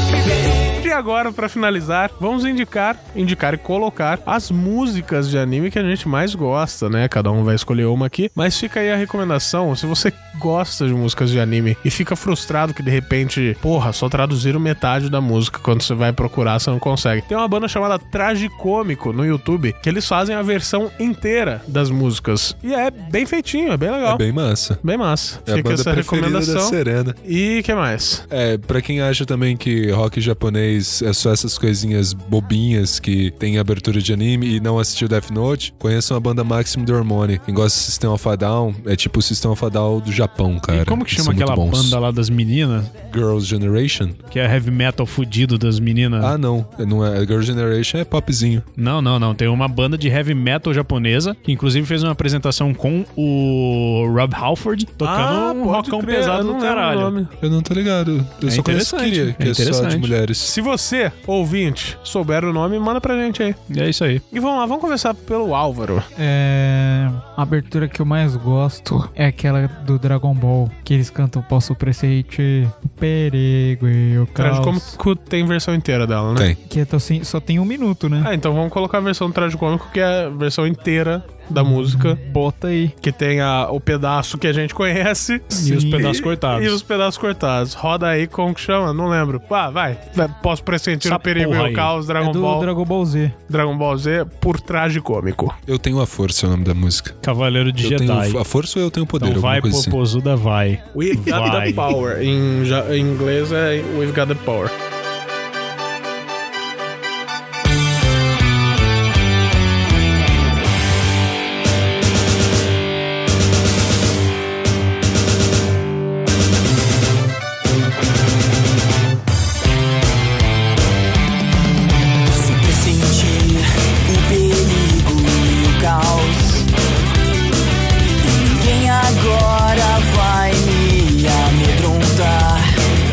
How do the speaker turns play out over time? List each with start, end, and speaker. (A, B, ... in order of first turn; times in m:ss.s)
0:00.8-0:24.2 A
0:24.0-0:24.8 B
0:24.8-0:28.2 A
0:25.4-0:27.2 B
0:28.3-0:42.0 B
0:40.7-0:42.9 C
0:43.0-0:44.2 B
0:44.3-0:46.3 C
0:46.2-0:48.6 B
0:48.8-0:57.1 C
0:55.0-0:57.3 A
0:57.4-1:00.5 B
0:58.4-1:00.1 C
1:00.4-1:03.6 A
1:03.7-1:04.2 C
1:04.3-1:06.1 A
1:06.2-1:15.0 D
1:14.4-1:16.5 A
1:16.6-1:18.3 D
1:18.2-1:22.2 A
1:21.5-1:22.9 D
1:23.0-1:32.7 A
1:25.6-1:26.2 D
1:25.6-1:26.8 C
1:31.0-1:31.9 C
1:32.2-1:33.4 D
1:33.5-1:35.6 A
1:35.7-1:37.2 B
1:37.2-1:38.4 C
1:37.8-1:40.0 B
1:39.2-1:41.9 C
1:40.9-1:44.7 A
2:02.3-2:06.7 E
2:08.2-2:12.7 E